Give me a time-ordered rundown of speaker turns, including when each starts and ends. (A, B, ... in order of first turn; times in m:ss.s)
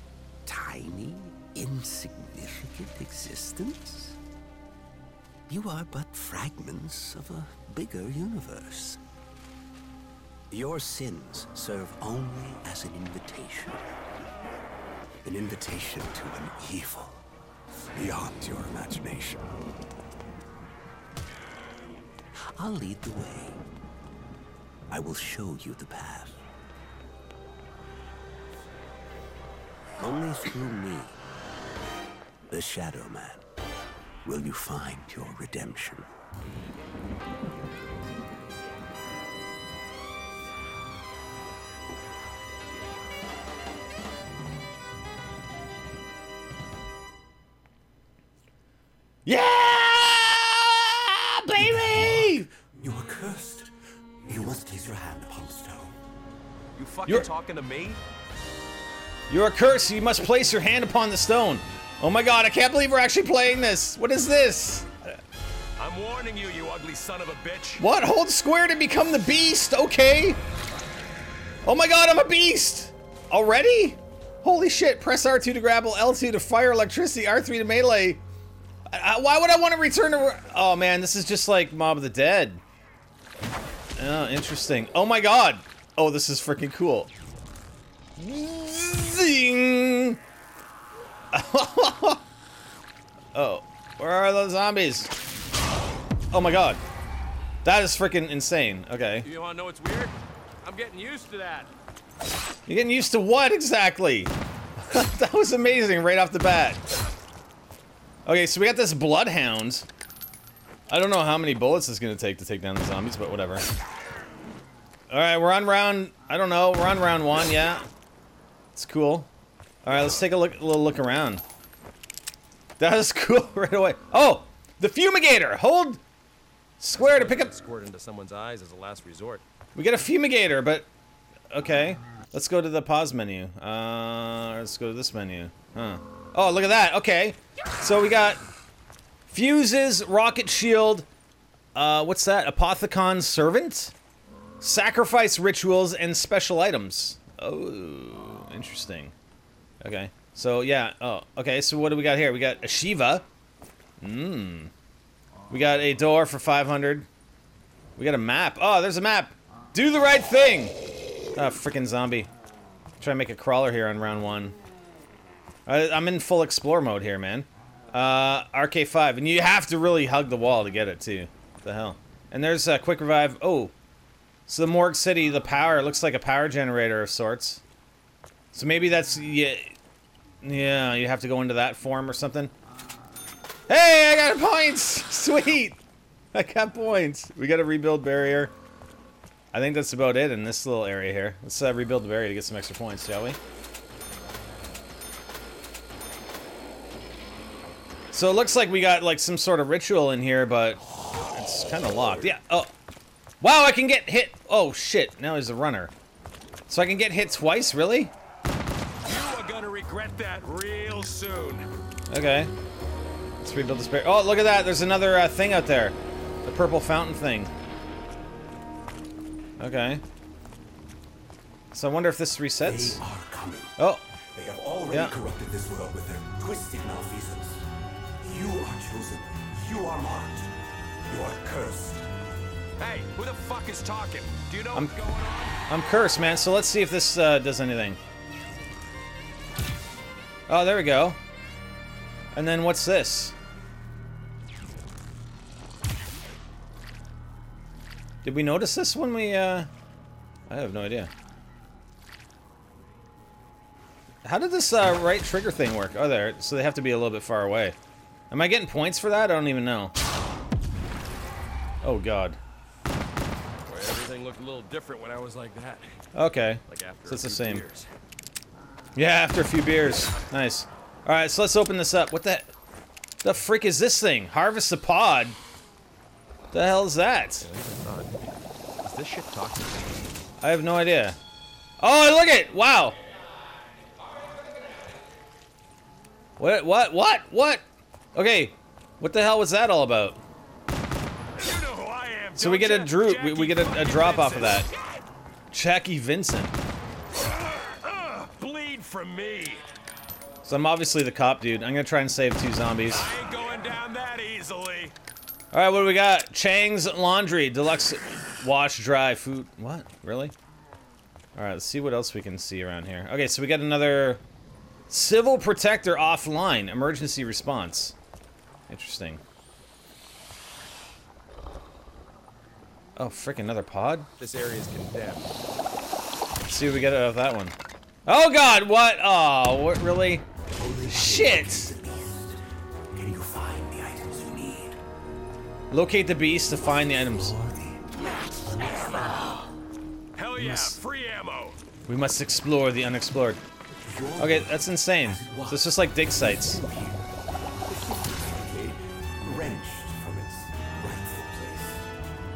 0:00.5-0:04.2 A
0:05.5-0:09.0 A
0:10.5-0:13.8 A
0:15.2-0:17.3 A
0:17.9-0:19.5 A
0:22.4-0:23.6 A
0:24.9-0:26.4 A
0:30.0-0:31.2 A
0:32.5-0:33.5 A
0:34.2-0:36.1 A
0:49.2-0:52.5 B
0:51.6-0:53.7 A
0:54.2-0:56.0 A
0:56.8-0:58.0 C
0:59.3-1:05.2 B
1:05.8-1:07.8 C
1:07.8-1:10.4 B
1:11.6-1:18.2 B
1:18.9-1:22.6 B
1:24.0-1:27.1 B
1:28.2-1:30.2 B
1:31.3-1:32.2 B
1:33.3-1:35.1 B
1:36.3-1:36.8 B
1:37.6-1:39.3 B
1:39.2-1:41.7 C
1:42.7-1:46.8 B
1:48.2-1:49.9 B
1:50.9-1:53.6 B
1:55.1-1:57.9 B
1:58.7-1:59.3 B
1:59.8-2:01.4 B
2:02.8-2:06.0 B
2:06.8-2:07.5 B
2:06.9-2:09.4 C
2:09.8-2:10.9 B
2:11.5-2:18.4 B
2:19.3-2:21.1 B
2:21.8-2:23.9 B
2:24.6-2:29.1 B
2:29.8-2:33.3 B
2:34.0-2:34.7 B
2:35.5-2:37.1 B
2:38.0-2:40.8 B
2:41.4-2:42.3 B
2:43.0-2:44.6 B
2:45.7-2:53.7 B
2:54.5-2:57.6 B
2:58.5-2:59.8 B
3:00.4-3:02.5 B
3:03.7-3:05.8 B
3:06.3-3:08.5 B
3:09.5-3:13.4 B
3:18.1-3:22.7 B
3:23.4-3:25.9 B
3:26.7-3:28.1 B
3:29.0-3:31.7 C
3:32.1-3:32.5 B
3:33.4-3:37.5 B
3:39.6-3:40.0 B
3:41.7-3:43.0 B
3:42.6-3:43.8 A
3:43.8-3:44.1 B
3:44.3-3:47.7 A
3:44.9-3:45.2 B
3:48.2-3:50.5 A
3:51.1-3:52.1 A
3:52.8-3:55.6 C
3:55.7-3:58.0 B
4:00.5-4:01.2 B
4:02.3-4:03.4 B
4:08.2-4:09.7 B
4:10.5-4:11.1 B
4:14.2-4:17.8 B
4:18.3-4:19.9 B
4:21.8-4:22.4 B
4:23.7-4:26.0 C
4:26.2-4:27.6 B
4:26.7-4:27.9 C
4:29.0-4:32.5 B
4:33.2-4:35.4 B
4:36.5-4:37.5 B
4:37.4-4:40.1 C
4:40.4-4:41.2 B
4:41.8-4:43.0 B
4:46.4-4:50.2 B
4:51.4-4:54.8 C
4:52.4-4:54.7 B
4:55.5-4:56.6 B
4:57.2-4:59.6 C
5:00.4-5:03.1 B
5:02.9-5:05.0 C
5:05.5-5:10.3 B
5:11.4-5:14.2 B
5:14.9-5:18.0 B
5:18.7-5:19.2 B
5:23.0-5:24.1 B
5:24.2-5:25.3 C
5:26.4-5:30.3 B
5:30.6-5:34.8 A
5:30.8-5:31.7 B
5:35.7-5:37.4 B
5:36.6-5:39.5 A
5:40.2-5:41.6 C
5:40.4-5:40.8 B
5:41.9-5:43.4 B
5:43.7-5:47.1 A
5:44.2-5:46.6 B
5:47.7-5:51.9 A